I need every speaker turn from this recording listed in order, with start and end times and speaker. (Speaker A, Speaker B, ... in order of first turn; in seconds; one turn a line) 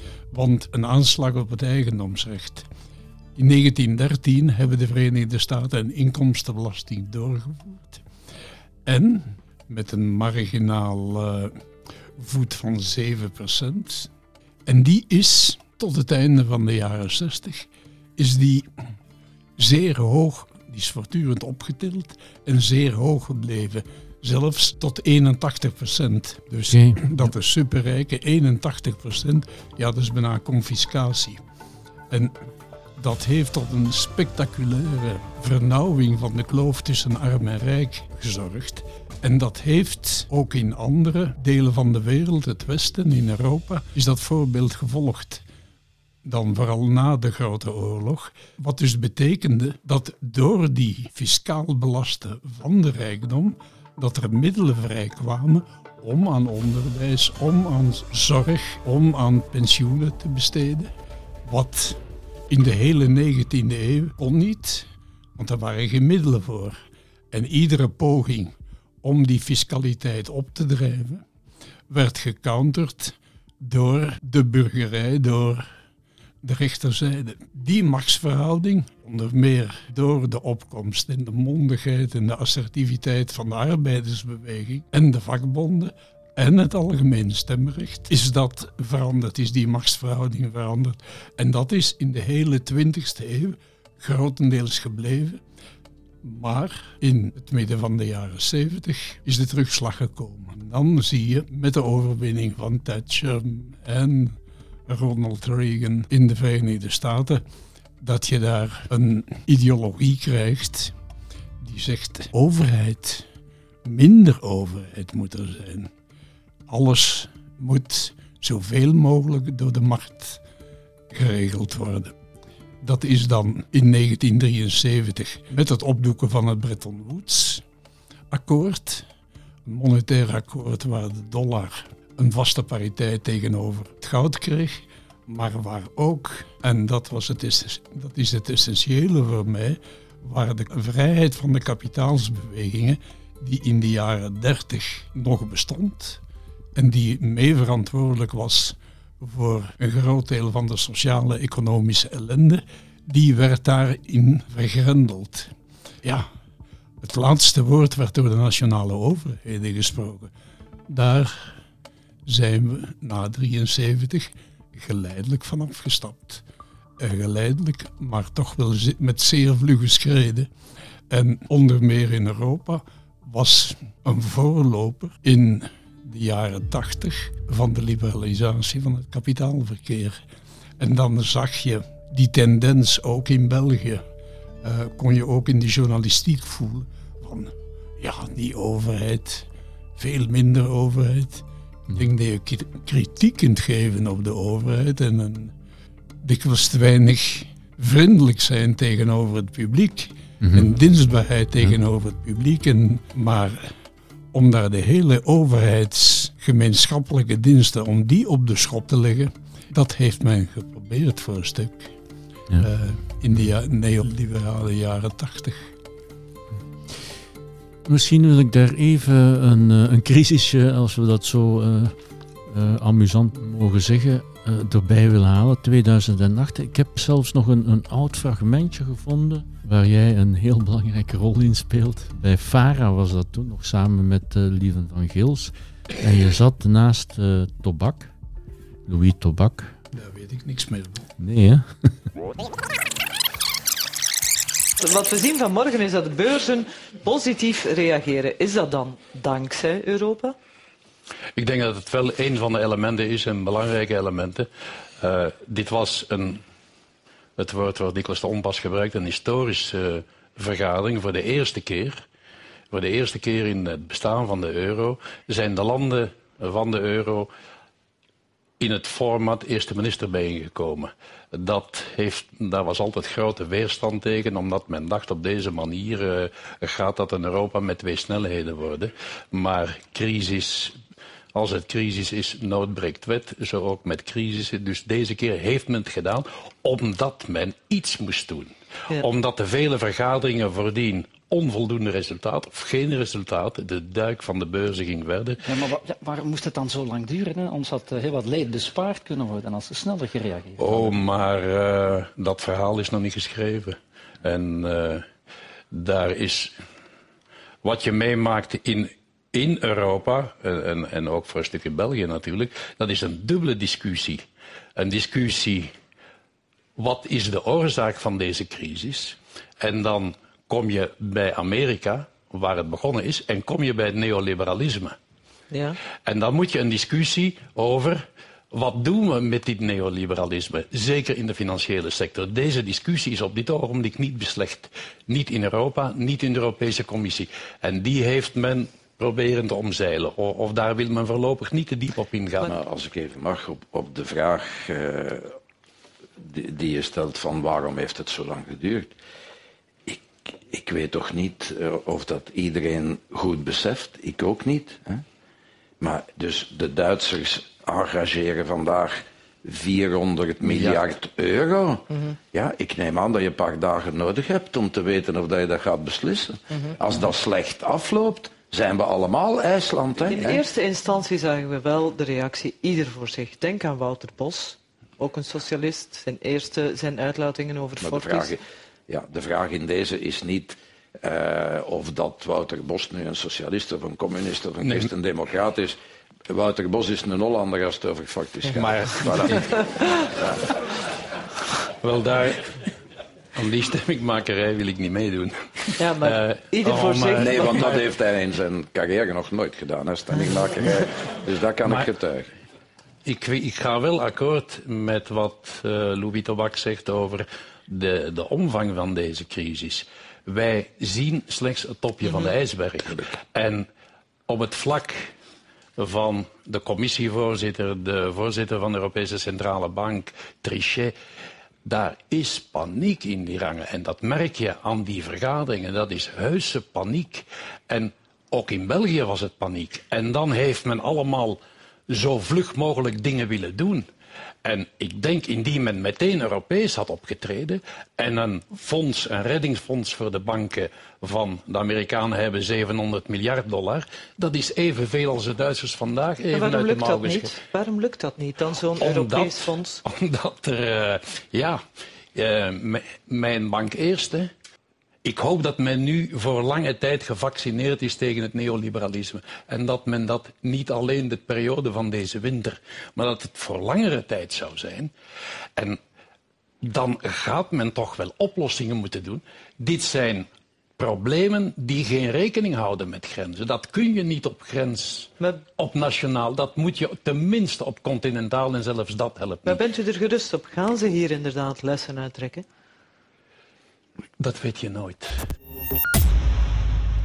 Speaker A: 0.3-2.7
Speaker A: 3.4-8.1
Speaker A: 8.8-11.6
Speaker A: 12.2-14.1
Speaker A: 14.7-18.7
Speaker A: 19.6-31.4
Speaker B: 26.7-27.1
Speaker A: 32.1-32.4
Speaker A: 33.0-45.4
Speaker A: 46.2-60.9
Speaker A: 61.5-66.8
Speaker A: 67.3-71.2
Speaker A: 71.9-75.7
Speaker A: 76.4-95.4
Speaker A: 96.2-107.4
Speaker A: 108.0-111.0
Speaker A: 111.6-113.3
Speaker A: 113.8-115.9
Speaker A: 116.7-120.4
Speaker A: 121.1-122.1
Speaker A: 122.8-127.6
Speaker A: 128.3-129.1
Speaker A: 129.7-146.2
Speaker A: 146.8-155.5
Speaker A: 156.0-156.3
Speaker A: 157.0-160.3
Speaker A: 160.9-161.6
Speaker A: 162.3-166.4
Speaker A: 167.0-170.5
Speaker A: 171.1-180.2
Speaker A: 180.8-184.1
Speaker A: 184.6-195.5
Speaker A: 196.2-203.8
Speaker B: 200.4-200.7
Speaker A: 204.3-211.9
Speaker A: 212.6-215.7
Speaker B: 217.8-238.1
Speaker B: 238.9-239.8
Speaker A: 239.9-241.1
Speaker B: 241.2-241.9
Speaker C: 244.8-250.4
Speaker D: 251.4-254.5
Speaker D: 255.0-256.4
Speaker D: 257.4-262.0
Speaker D: 262.7-267.3
Speaker D: 268.6-280.8
Speaker D: 281.3-295.4
Speaker E: 295.4-301.0
Speaker D: 300.6-305.1
Speaker D: 305.7-306.5
Speaker D: 307.6-315.7
Speaker D: 316.8-325.0
Speaker C: 325.5-325.8
Speaker D: 326.1-342.6
Speaker F: 342.4-345.4
Speaker F: 346.2-348.9
Speaker F: 349.9-355.1
Speaker F: 355.8-370.4
Speaker D: 360.5-360.8
Speaker C: 370.1-378.4
Speaker F: 377.8-385.8
Speaker D: 384.6-384.9
Speaker F: 386.3-389.6
Speaker D: 388.6-389.4
Speaker D: 391.8-392.6
Speaker D: 393.4-397.8
Speaker C: 395.8-397.7
Speaker F: 397.1-402.3
Speaker D: 403.1-413.7
Speaker D: 414.3-415.1
Speaker D: 415.8-420.9
Speaker D: 421.6-433.9
Speaker D: 434.4-447.4
Speaker C: 446.3-449.8
Speaker D: 448.7-451.6
Speaker D: 452.1-454.3
Speaker D: 455.0-464.9
Speaker D: 466.6-479.6
Speaker C: 479.4-482.5
Speaker D: 484.2-485.3